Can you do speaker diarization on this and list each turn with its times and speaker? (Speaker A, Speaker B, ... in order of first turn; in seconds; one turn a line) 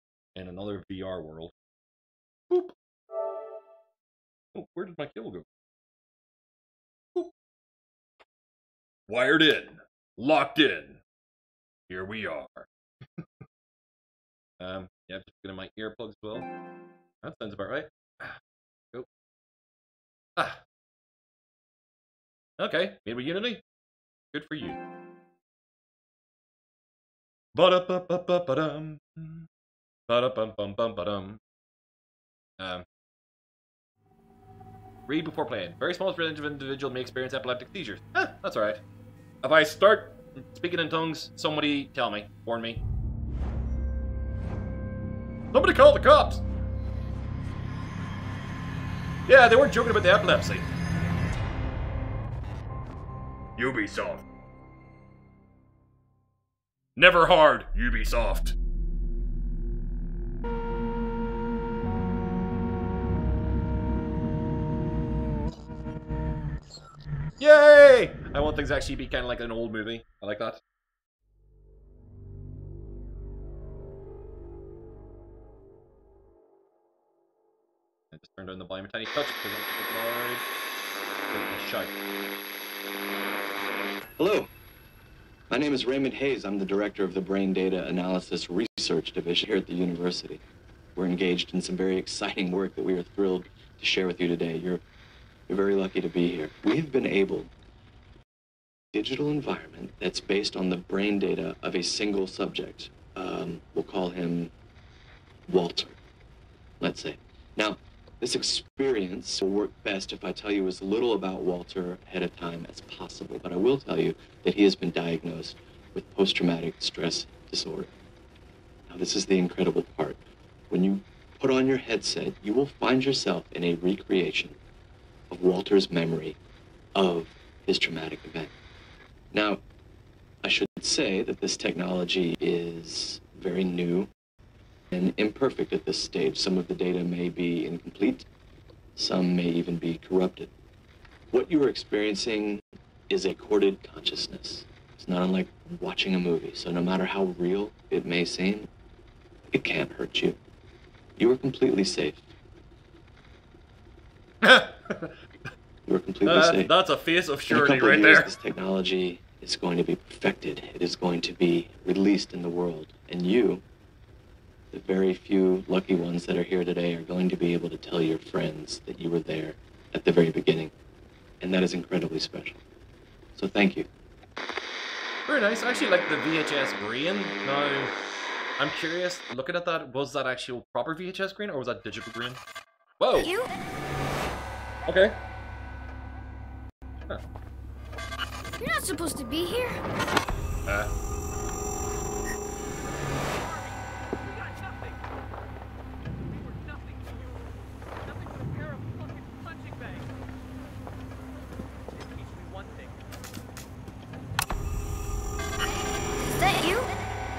Speaker A: 0.3-1.5
Speaker A: 2.5-2.7
Speaker A: 4.5-5.5
Speaker A: 9.1-11.0
Speaker A: 11.9-13.2
Speaker A: 14.6-16.5
Speaker A: 17.2-18.4
Speaker A: 20.4-20.6
Speaker A: 22.6-23.6
Speaker A: 24.3-24.8
Speaker A: 27.5-29.5
Speaker A: 30.1-31.4
Speaker A: 32.6-32.8
Speaker A: 35.1-38.8
Speaker A: 39.4-42.8
Speaker A: 45.5-46.4
Speaker A: 49.3-50.7
Speaker A: 53.6-54.2
Speaker A: 57.0-58.5
Speaker A: 67.4-70.6
Speaker A: 78.1-80.4
Speaker A: 81.3-82.0
Speaker B: 84.2-84.5
Speaker B: 85.5-90.4
Speaker B: 91.0-94.8
Speaker B: 95.5-97.5
Speaker B: 98.9-104.5
Speaker B: 105.5-106.0
Speaker B: 106.8-117.9
Speaker B: 118.9-124.6
Speaker B: 125.3-126.4
Speaker B: 126.9-128.5
Speaker B: 129.3-129.6
Speaker B: 130.4-134.1
Speaker B: 134.9-138.3
Speaker B: 138.9-140.5
Speaker B: 141.3-148.7
Speaker B: 149.5-150.4
Speaker B: 151.2-152.2
Speaker A: 154.4-155.2
Speaker B: 155.8-156.7
Speaker A: 156.2-158.3
Speaker B: 157.5-163.6
Speaker B: 164.7-170.7
Speaker B: 171.4-172.6
Speaker B: 173.3-173.9
Speaker A: 175.3-177.9
Speaker A: 178.6-182.4
Speaker A: 183.0-183.3
Speaker C: 183.2-183.5
Speaker A: 184.9-185.2
Speaker C: 188.5-189.8
Speaker A: 190.7-190.9
Speaker D: 193.3-195.1
Speaker D: 196.2-197.4
Speaker D: 198.0-200.1
Speaker D: 201.9-203.0
Speaker C: 206.2-206.9